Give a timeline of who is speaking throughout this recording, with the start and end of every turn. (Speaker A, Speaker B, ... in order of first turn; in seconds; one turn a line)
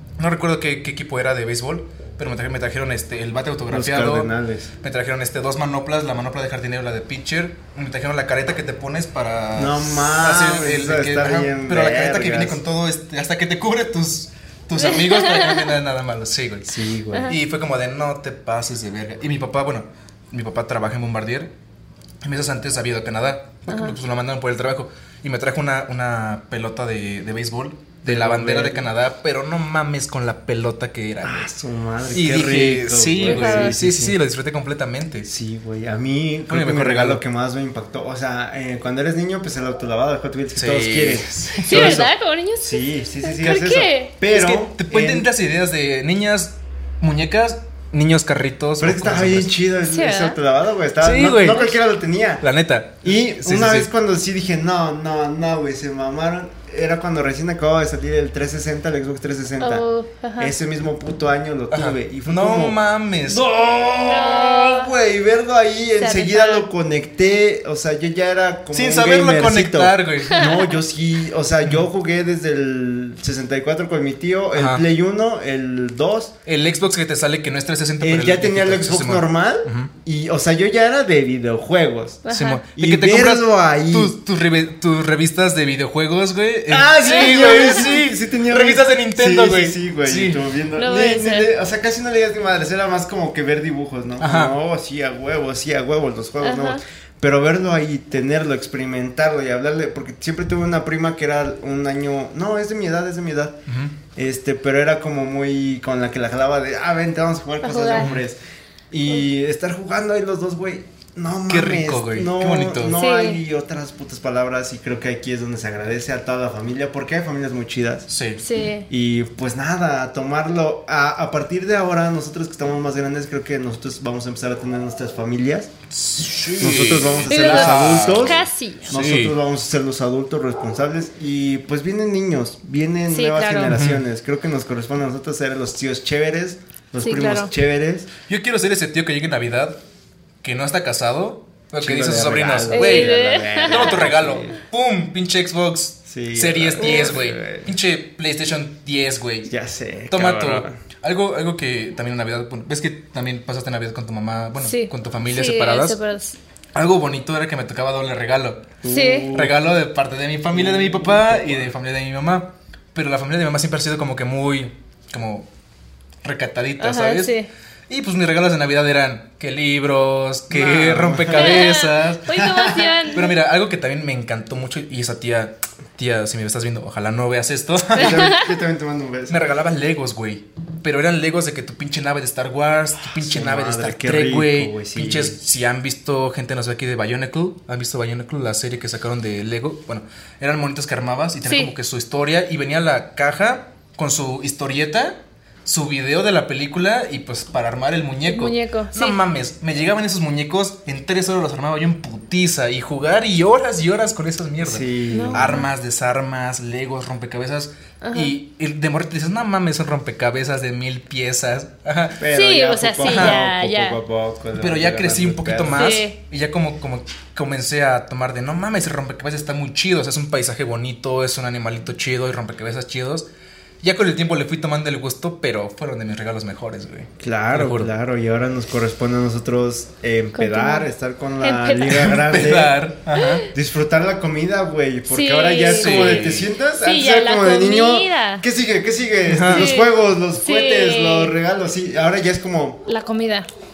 Speaker A: 0.2-4.3
Speaker B: 3.7-4.7
Speaker A: 4.8-21.5
Speaker B: 9.5-12.6
Speaker C: 14.8-15.7
Speaker B: 16.6-17.4
Speaker A: 22.2-31.4
Speaker C: 23.7-23.9
Speaker B: 28.0-28.8
Speaker B: 31.2-34.2
Speaker A: 32.1-35.3
Speaker C: 33.2-33.8
Speaker B: 35.2-42.1
Speaker A: 36.5-37.2
Speaker A: 40.5-42.1
Speaker C: 41.6-44.1
Speaker B: 42.6-45.3
Speaker A: 44.3-49.5
Speaker B: 48.8-52.4
Speaker C: 49.8-50.4
Speaker A: 51.0-51.8
Speaker A: 52.4-53.9
Speaker B: 53.0-59.9
Speaker C: 59.6-60.5
Speaker B: 60.4-76.3
Speaker A: 61.7-63.4
Speaker C: 63.9-64.9
Speaker C: 66.0-66.7
Speaker A: 68.7-70.4
Speaker C: 70.3-70.8
Speaker A: 74.5-74.8
Speaker A: 76.5-79.9
Speaker B: 78.0-82.2
Speaker C: 82.2-82.6
Speaker A: 82.3-90.4
Speaker B: 82.8-84.2
Speaker B: 86.7-103.6
Speaker C: 87.0-87.9
Speaker C: 90.8-91.5
Speaker A: 94.2-94.5
Speaker C: 96.4-96.8
Speaker A: 103.7-103.9
Speaker B: 104.1-108.4
Speaker C: 107.6-108.1
Speaker A: 108.0-108.2
Speaker B: 108.9-118.1
Speaker A: 111.5-113.0
Speaker C: 112.9-113.4
Speaker A: 118.1-118.4
Speaker C: 118.4-118.9
Speaker B: 118.9-125.7
Speaker A: 125.9-129.3
Speaker B: 126.6-138.1
Speaker C: 127.2-128.9
Speaker C: 133.1-133.8
Speaker A: 133.7-134.0
Speaker C: 137.0-137.5
Speaker A: 138.3-139.8
Speaker A: 140.4-149.5
Speaker B: 141.8-144.6
Speaker C: 142.7-144.1
Speaker B: 146.1-147.7
Speaker C: 146.8-147.1
Speaker B: 149.5-150.8
Speaker A: 150.1-156.0
Speaker C: 154.6-156.4
Speaker A: 156.7-165.5
Speaker B: 158.8-159.6
Speaker C: 158.9-159.3
Speaker B: 160.5-161.7
Speaker A: 166.2-167.3
Speaker C: 166.8-167.5
Speaker A: 167.9-172.4
Speaker B: 170.5-171.7
Speaker C: 171.3-173.3
Speaker B: 172.3-172.9
Speaker A: 172.9-178.5
Speaker B: 177.9-179.4
Speaker C: 178.0-178.3
Speaker A: 179.3-212.2
Speaker B: 183.1-185.3
Speaker C: 191.4-191.7
Speaker C: 198.2-199.2
Speaker B: 204.6-205.6
Speaker C: 205.1-205.7
Speaker C: 208.0-208.3
Speaker B: 212.2-216.0
Speaker C: 212.3-214.0
Speaker A: 213.0-213.4
Speaker A: 214.6-223.2
Speaker C: 215.7-216.2
Speaker A: 223.8-227.9
Speaker B: 227.2-232.8
Speaker C: 230.3-230.9
Speaker C: 231.4-232.2
Speaker A: 231.9-233.5
Speaker B: 233.5-242.8
Speaker C: 235.1-236.3
Speaker A: 235.6-236.6
Speaker C: 236.8-238.4
Speaker A: 239.3-239.7
Speaker C: 239.5-241.3
Speaker C: 242.8-243.5